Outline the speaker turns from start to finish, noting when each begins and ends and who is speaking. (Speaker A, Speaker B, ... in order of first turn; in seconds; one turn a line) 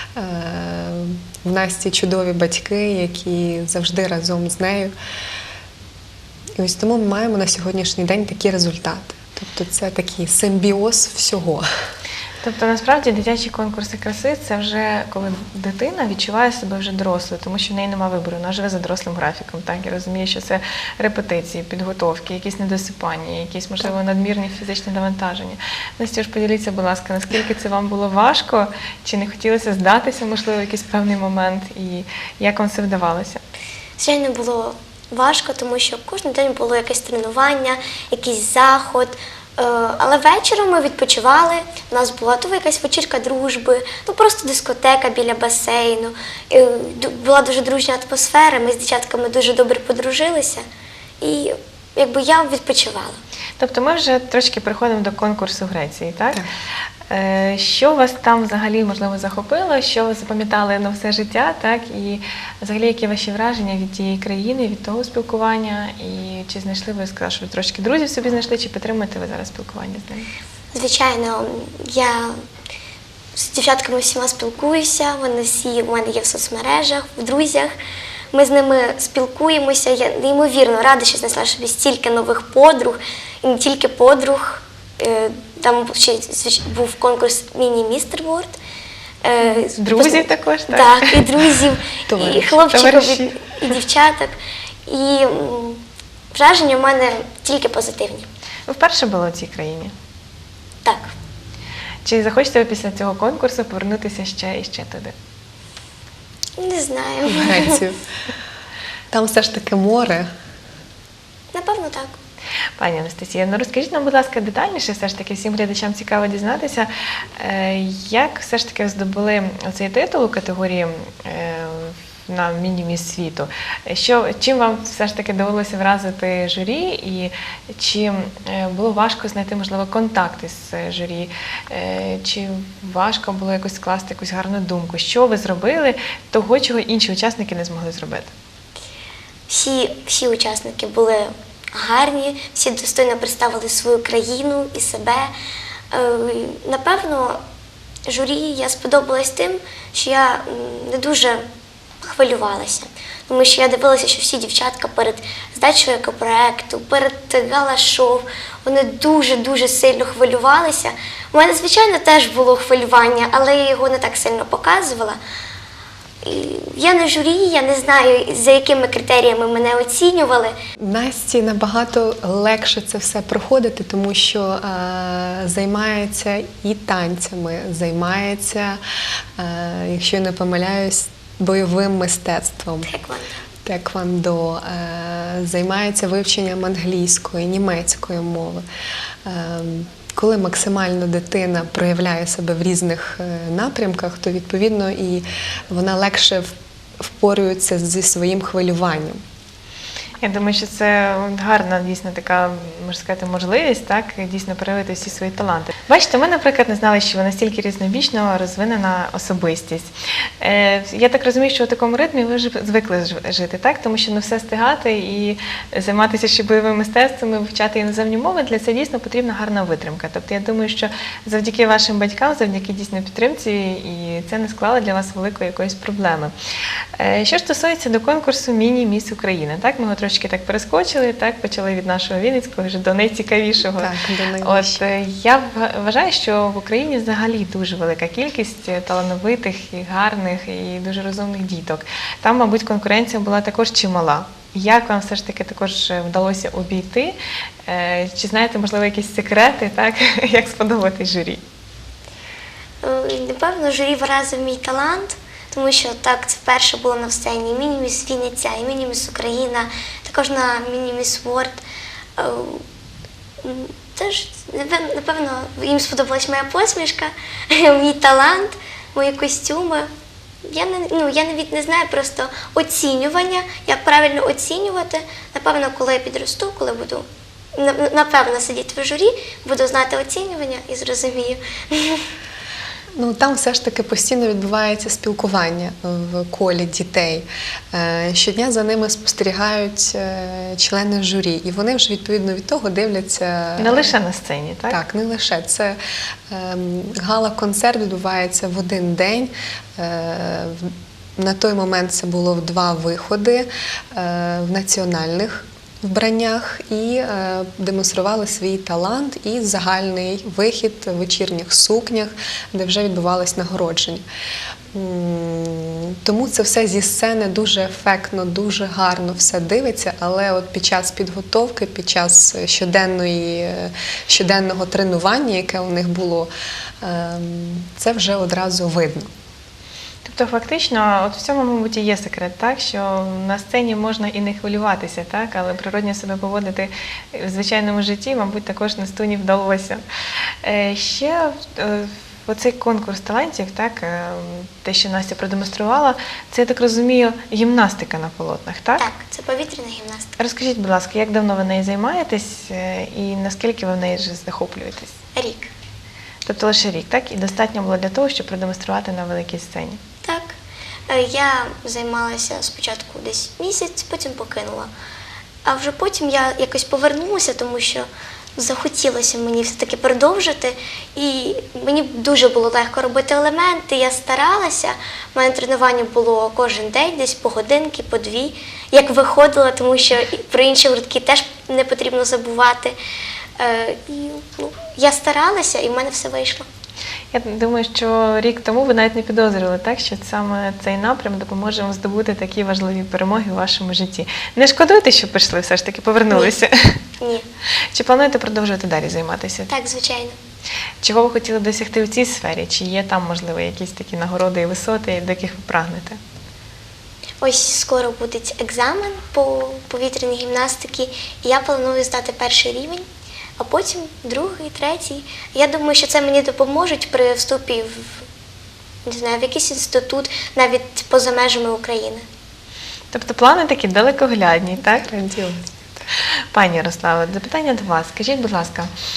Speaker A: 0.2-4.9
Speaker A: 6.6-11.7
Speaker B: 12.4-33.4
Speaker C: 34.0-50.6
Speaker C: 51.2-53.2
Speaker B: 53.6-56.4
Speaker B: 57.1-70.3
Speaker C: 70.7-72.3
Speaker C: 73.4-77.7
Speaker C: 78.3-88.6
Speaker C: 89.2-95.8
Speaker B: 89.5-91.2
Speaker A: 92.1-92.5
Speaker B: 92.5-93.8
Speaker C: 96.3-98.3
Speaker B: 98.7-99.9
Speaker C: 100.8-101.1
Speaker B: 102.0-105.1
Speaker C: 106.6-107.8
Speaker A: 107.3-108.0
Speaker A: 109.1-110.3
Speaker C: 111.5-112.2
Speaker B: 112.8-138.3
Speaker C: 139.5-145.3
Speaker C: 145.9-147.4
Speaker C: 148.1-151.4
Speaker C: 152.0-165.2
Speaker C: 166.2-170.6
Speaker A: 170.8-178.8
Speaker A: 179.4-182.9
Speaker C: 182.8-183.4
Speaker A: 183.7-188.6
Speaker A: 189.2-196.5
Speaker A: 197.0-199.2
Speaker B: 200.2-209.9
Speaker B: 210.4-226.3
Speaker B: 227.0-233.9
Speaker A: 233.8-234.8
Speaker B: 234.4-247.2
Speaker B: 247.7-251.4
Speaker C: 252.8-261.6
Speaker C: 262.2-262.6
Speaker C: 263.4-269.9
Speaker C: 270.4-282.1
Speaker A: 283.0-293.9
Speaker B: 293.6-294.8
Speaker A: 294.7-295.8
Speaker A: 296.3-314.0
Speaker A: 314.7-329.1
Speaker B: 330.1-339.8
Speaker B: 340.4-348.8
Speaker C: 348.8-350.1
Speaker B: 350.2-355.0
Speaker C: 355.1-355.5
Speaker B: 356.2-359.8
Speaker C: 360.0-360.3
Speaker C: 360.9-364.7
Speaker C: 365.4-382.8
Speaker C: 383.4-386.5
Speaker B: 387.1-396.8
Speaker C: 397.0-397.2
Speaker B: 397.7-399.5
Speaker C: 399.5-400.2
Speaker B: 400.8-406.0
Speaker C: 407.2-412.9
Speaker C: 413.4-418.1
Speaker C: 418.9-422.1
Speaker B: 422.9-424.9
Speaker A: 424.7-425.5
Speaker B: 426.3-428.7